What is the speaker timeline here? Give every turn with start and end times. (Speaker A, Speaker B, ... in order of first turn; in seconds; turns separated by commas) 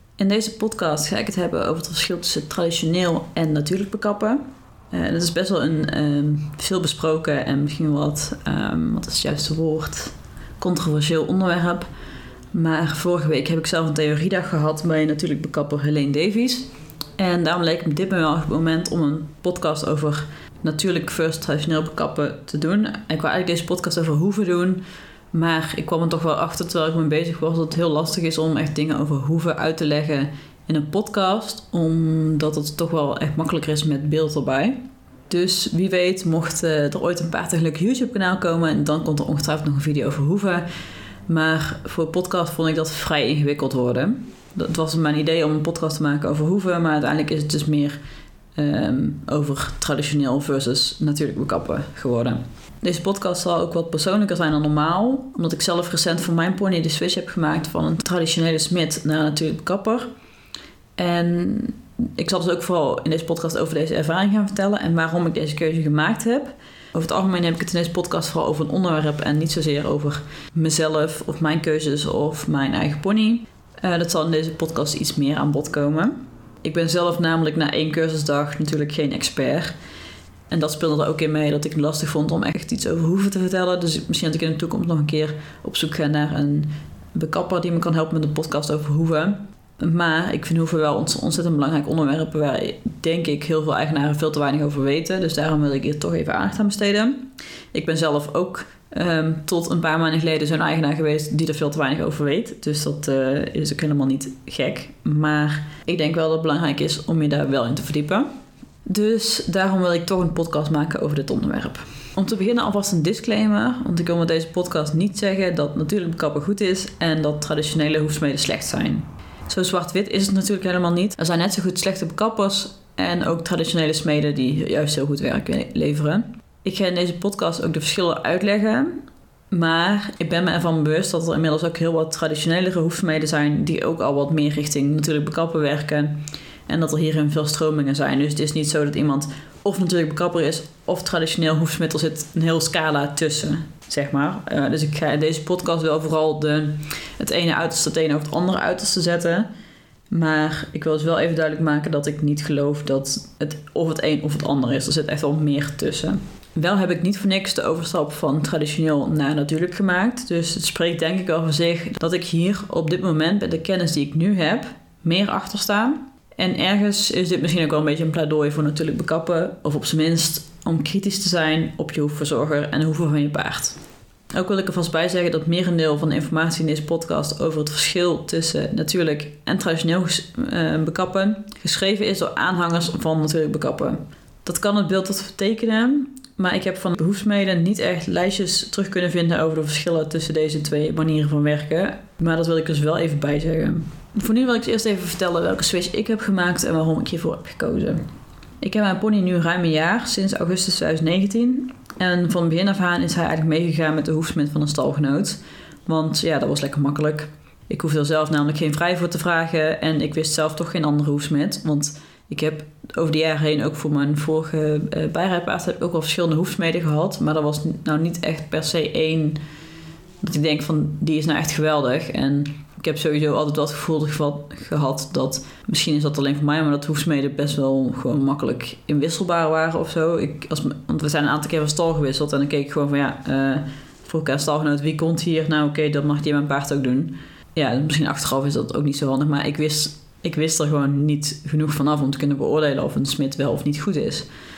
Speaker A: 0.2-4.4, Speaker A: 4.9-11.9, Speaker A: 12.5-40.7, Speaker A: 41.3-48.0, Speaker A: 48.5-60.1, Speaker A: 61.0-79.8, Speaker A: 80.5-108.3, Speaker A: 108.9-149.5, Speaker A: 150.1-173.8, Speaker A: 174.3-198.0, Speaker A: 198.6-219.4, Speaker A: 220.2-244.3